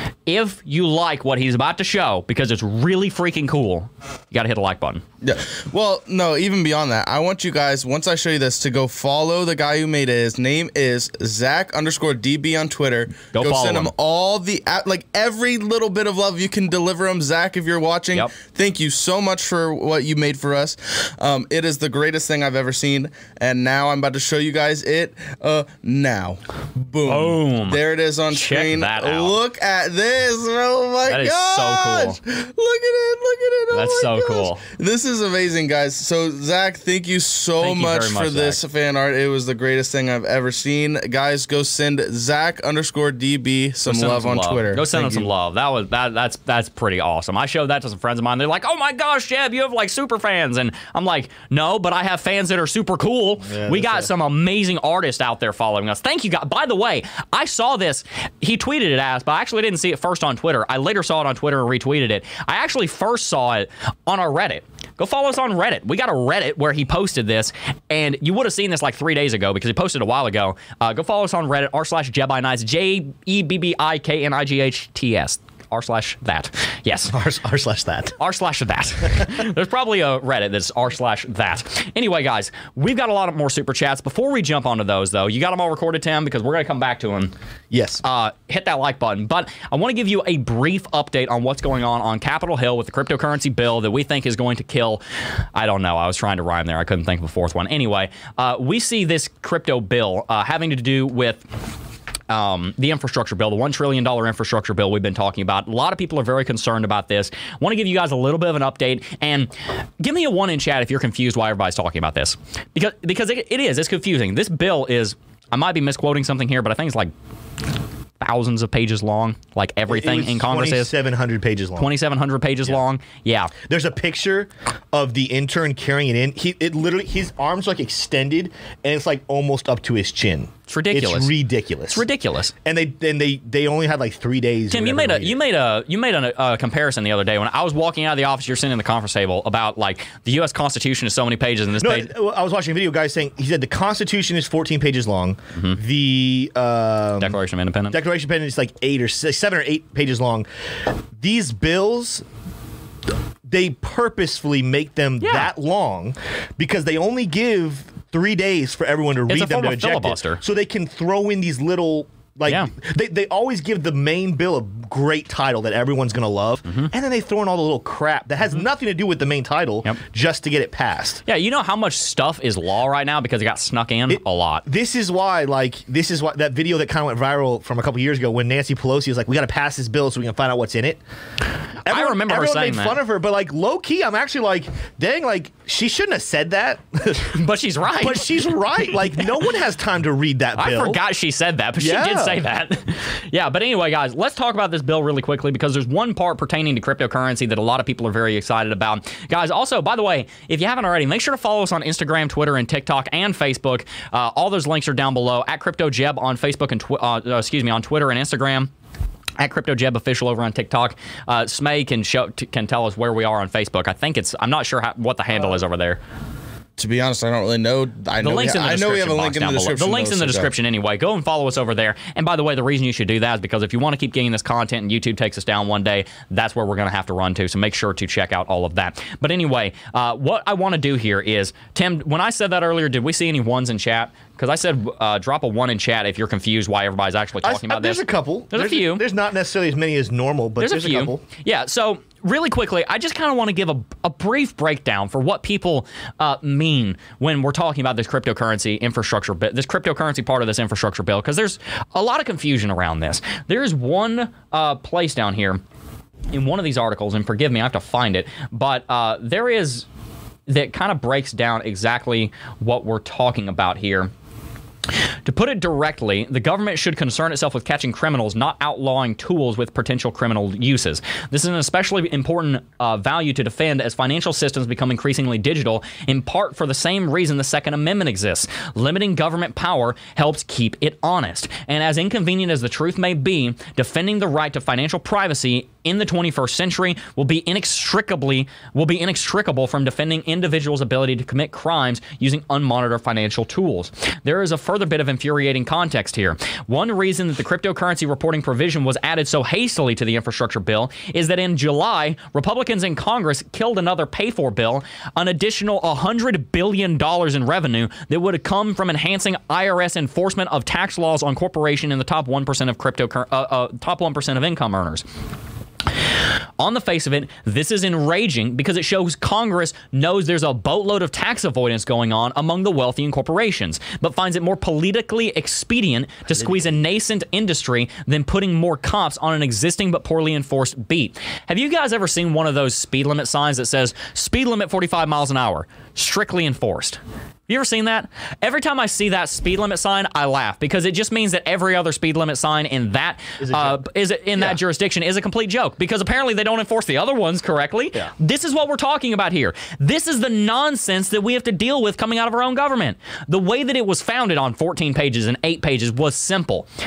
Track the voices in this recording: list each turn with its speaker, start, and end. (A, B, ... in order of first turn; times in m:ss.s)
0:00.3-0:05.0 A
0:05.2-0:45.3 B
0:13.3-0:13.9 A
0:27.0-0:29.3 A
0:31.1-0:32.2 A
0:33.7-0:34.6 A
0:37.6-0:38.6 A
0:43.8-1:17.1 A
0:53.4-0:54.1 C
1:17.1-1:18.2 C
1:18.2-1:27.3 A
1:27.7-1:28.0 C
1:28.0-1:35.0 A
1:35.5-1:41.4 A
1:42.3-1:57.1 A
1:58.2-2:00.9 A
1:59.9-2:01.9 C
2:01.8-2:03.5 A
2:03.6-2:12.0 C
2:10.7-2:11.3 A
2:11.9-2:12.5 A
2:12.6-2:15.4 C
2:14.7-2:22.1 A
2:21.8-2:27.4 C
2:27.2-2:28.0 A
2:27.9-2:30.5 C
2:31.2-2:32.2 C
2:33.4-2:51.2 C
2:35.2-2:35.5 A
2:39.3-2:40.4 A
2:51.3-2:54.6 A
2:54.1-3:01.0 C
3:01.8-3:07.3 C
3:01.8-3:03.0 A
3:07.1-3:08.5 A
3:08.0-3:11.0 C
3:10.6-3:28.7 A
3:11.8-3:12.4 C
3:29.4-3:36.0 A
3:36.8-3:40.5 B
3:38.2-3:59.0 A
3:57.4-4:01.2 C
4:00.6-4:15.6 A
4:16.3-4:19.8 A
4:20.5-4:24.1 A
4:25.2-5:15.0 A
5:16.6-5:56.7 A
5:43.4-5:43.8 C